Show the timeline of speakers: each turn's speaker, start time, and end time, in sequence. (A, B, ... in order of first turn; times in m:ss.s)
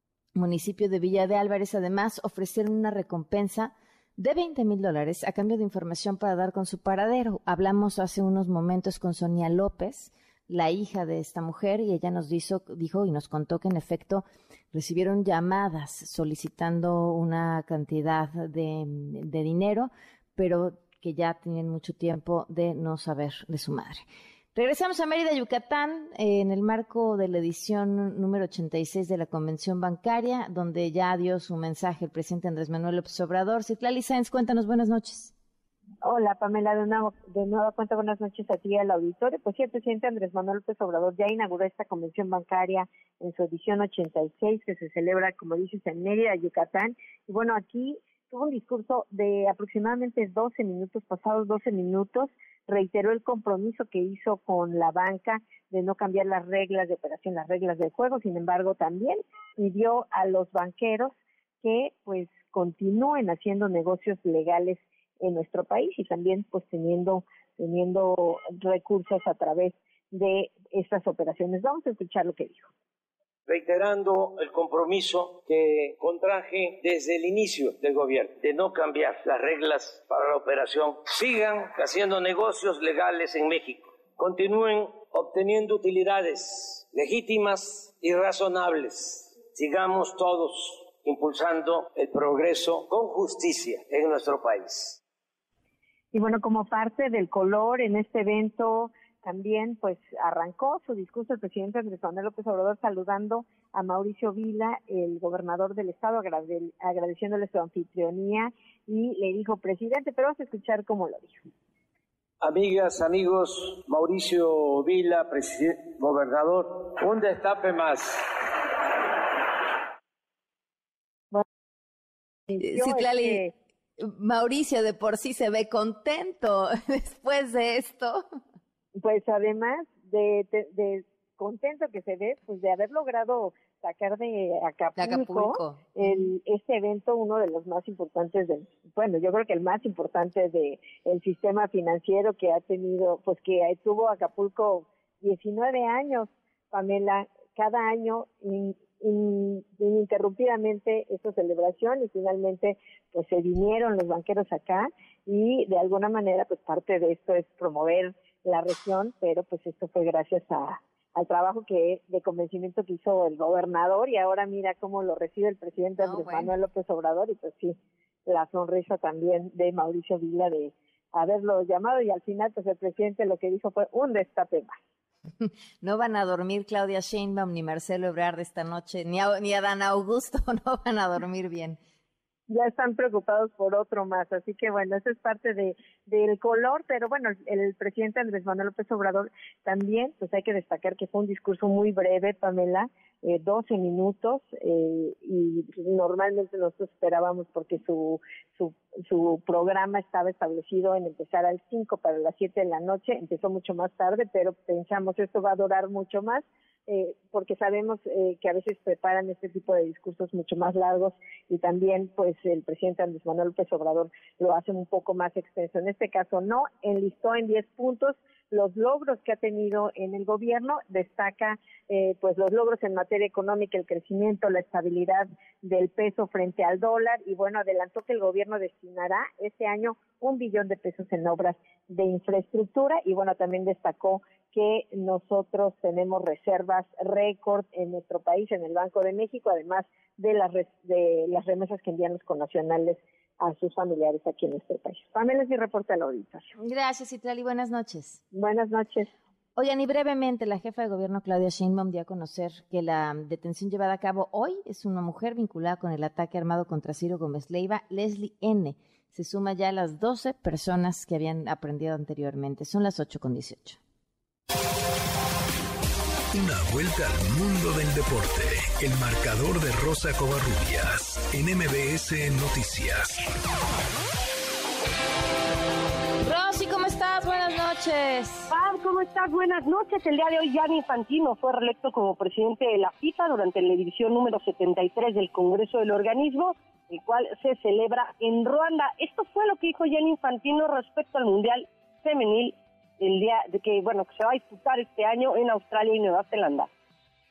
0:00.4-0:24.0 A
0:24.6-0:35.3 A
0:36.0-1:12.7 B
1:13.5-1:35.0 C
1:36.1-1:51.4 B
1:52.4-1:58.2 C
2:02.5-2:03.5 B
2:02.6-2:03.4 A
2:04.0-2:08.4 A
2:09.0-2:54.8 B
2:15.0-2:16.3 A
2:46.0-2:46.5 A
2:55.4-3:01.8 A
3:02.5-4:06.5 B
4:06.6-4:08.2 A
4:08.3-4:09.1 B
4:09.6-4:23.8 A
4:26.3-4:33.2 D
4:36.2-4:38.5 A
4:38.5-4:56.7 E